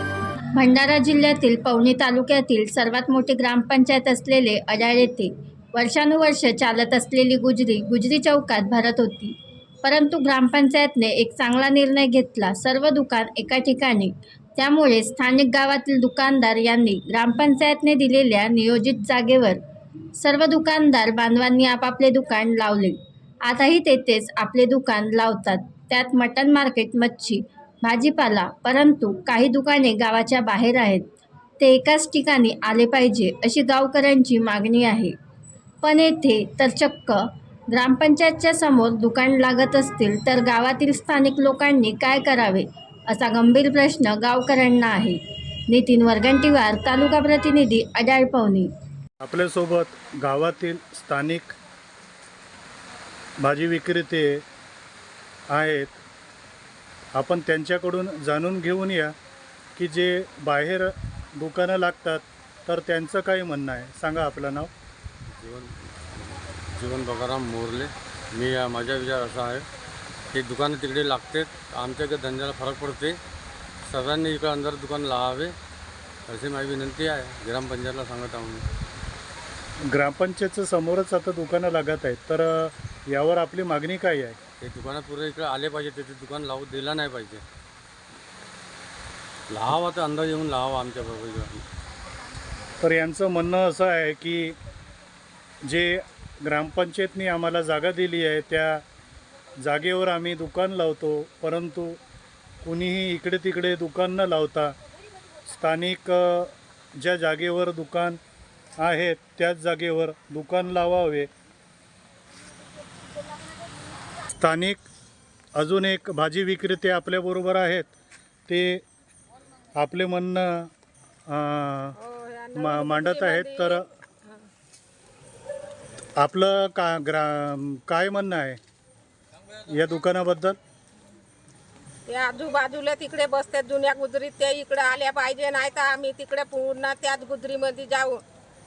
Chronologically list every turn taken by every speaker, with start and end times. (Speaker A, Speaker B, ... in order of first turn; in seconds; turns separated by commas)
Speaker A: 0.6-19.6, Speaker A: 20.2-31.0, Speaker A: 31.6-35.1, Speaker A: 35.8-48.7, Speaker B: 49.2-51.5, Speaker B: 53.4-54.4, Speaker B: 55.5-56.0, Speaker B: 57.1-59.1, Speaker B: 59.8-64.7, Speaker C: 65.3-69.7, Speaker C: 70.3-73.2, Speaker C: 73.8-75.6, Speaker C: 76.3-78.7, Speaker B: 79.9-84.3, Speaker C: 84.6-87.4, Speaker C: 89.5-91.6, Speaker B: 92.8-94.6, Speaker B: 95.7-98.8, Speaker B: 99.6-102.0, Speaker B: 102.6-104.8, Speaker B: 105.5-108.2, Speaker B: 108.8-111.3, Speaker B: 114.3-114.8, Speaker B: 115.5-117.9, Speaker B: 118.5-118.8, Speaker B: 119.8-120.7, Speaker B: 121.3-122.0, Speaker D: 122.0-124.3, Speaker B: 122.5-123.8, Speaker B: 126.2-128.6, Speaker B: 129.7-130.6, Speaker D: 132.1-138.2